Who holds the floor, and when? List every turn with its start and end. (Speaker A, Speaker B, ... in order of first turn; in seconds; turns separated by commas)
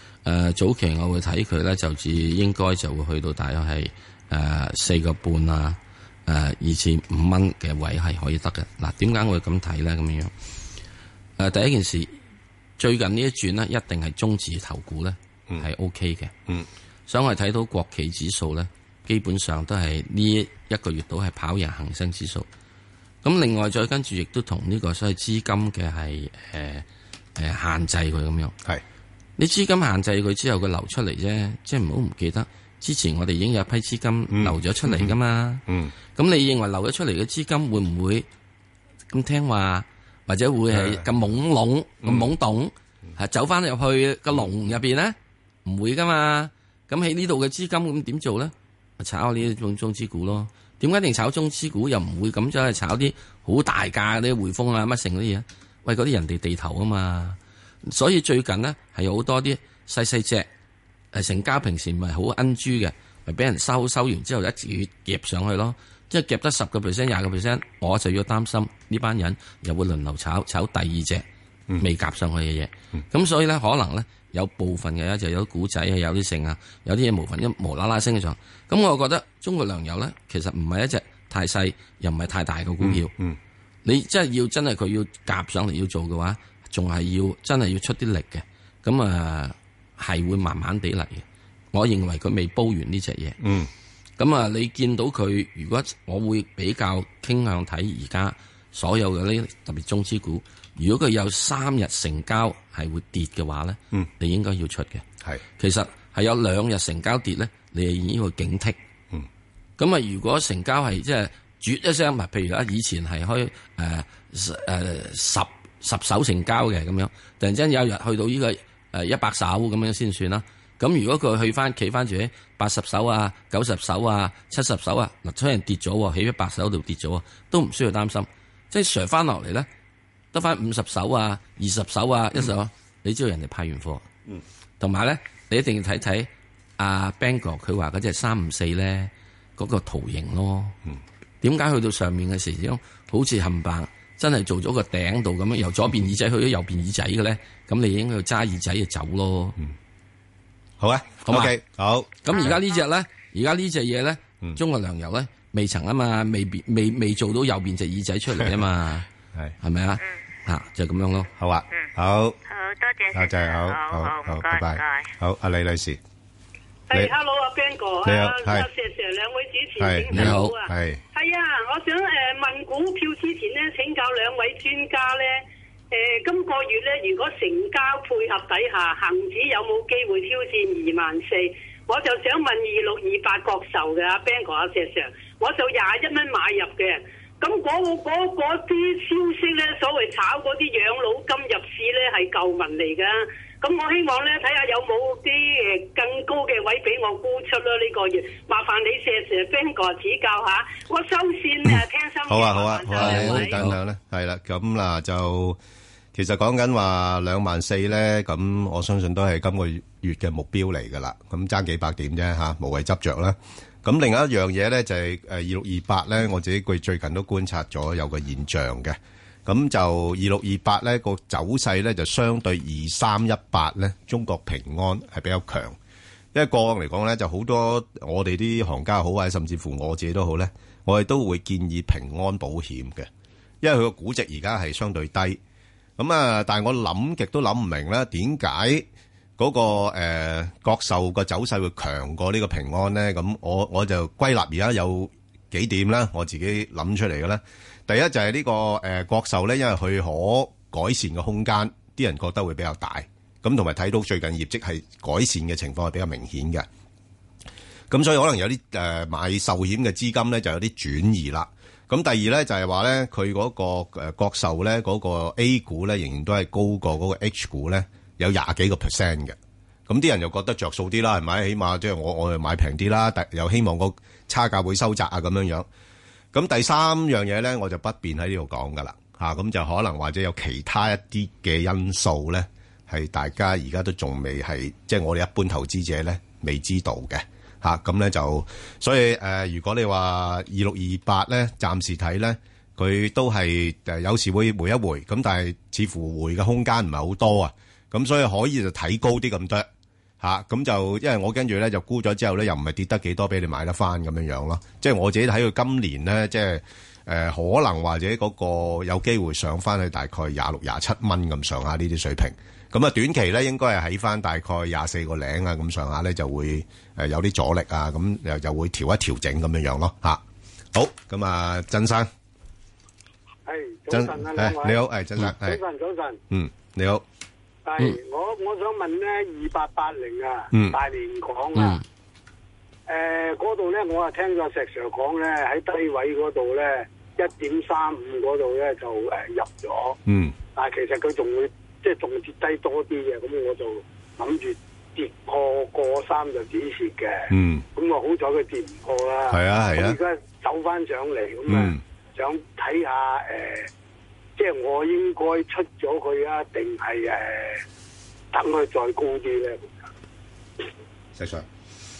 Speaker A: 0.2-10.3, Speaker A: 11.4-12.1, Speaker A: 12.8-16.3, Speaker A: 17.1-22.5, Speaker A: 23.2-28.5, Speaker A: 29.4-35.6, Speaker B: 34.3-35.1, Speaker B: 35.7-35.9, Speaker A: 36.1-38.2, Speaker A: 39.1-60.5, Speaker B: 40.7-41.0, Speaker B: 42.0-42.3, Speaker A: 61.1-71.2, Speaker A: 71.8-83.1, Speaker B: 82.8-83.4, Speaker A: 83.8-93.4, Speaker B: 93.4-93.7, Speaker A: 94.2-105.0, Speaker A: 105.6-108.8, Speaker A: 109.8-129.7, Speaker A: 130.3-134.1, Speaker A: 134.8-140.8, Speaker A: 141.4-149.6, Speaker B: 150.8-152.6, Speaker A: 151.2-151.6, Speaker A: 152.2-159.1, Speaker A: 159.6-161.3, Speaker B: 161.4-162.4, Speaker C: 162.5-165.1, Speaker B: 163.1-166.0, Speaker D: 166.9-170.5, Speaker B: 168.0-168.7, Speaker B: 169.8-171.0, Speaker A: 170.1-170.6, Speaker D: 171.2-175.2, Speaker D: 175.9-193.1, Speaker D: 193.6-203.5, Speaker B: 201.7-205.6, Speaker A: 202.9-203.8, Speaker B: 206.1-225.8, Speaker B: 226.3-233.1, Speaker B: 233.6-235.4, Speaker B: 236.0-238.8, Speaker B: 239.4-256.6, Speaker B: 257.9-269.4, Speaker B: 269.9-275.7, Speaker B: 276.3-299.7, Speaker B: 300.2-320.2, Speaker B: 320.7-322.1, Speaker E: 323.4-326.2, Speaker B: 323.9-325.6, Speaker B: 326.3-327.0, Speaker E: 327.6-331.8, Speaker B: 330.5-330.8, Speaker A: 331.6-331.8, Speaker E: 332.9-340.0, Speaker B: 340.1-340.4, Speaker E: 340.5-353.7, Speaker B: 347.3-347.6, Speaker B: 349.3-350.0, Speaker B: 351.5-351.8, Speaker E: 354.4-357.6, Speaker E: 358.3-359.9, Speaker B: 361.1-361.4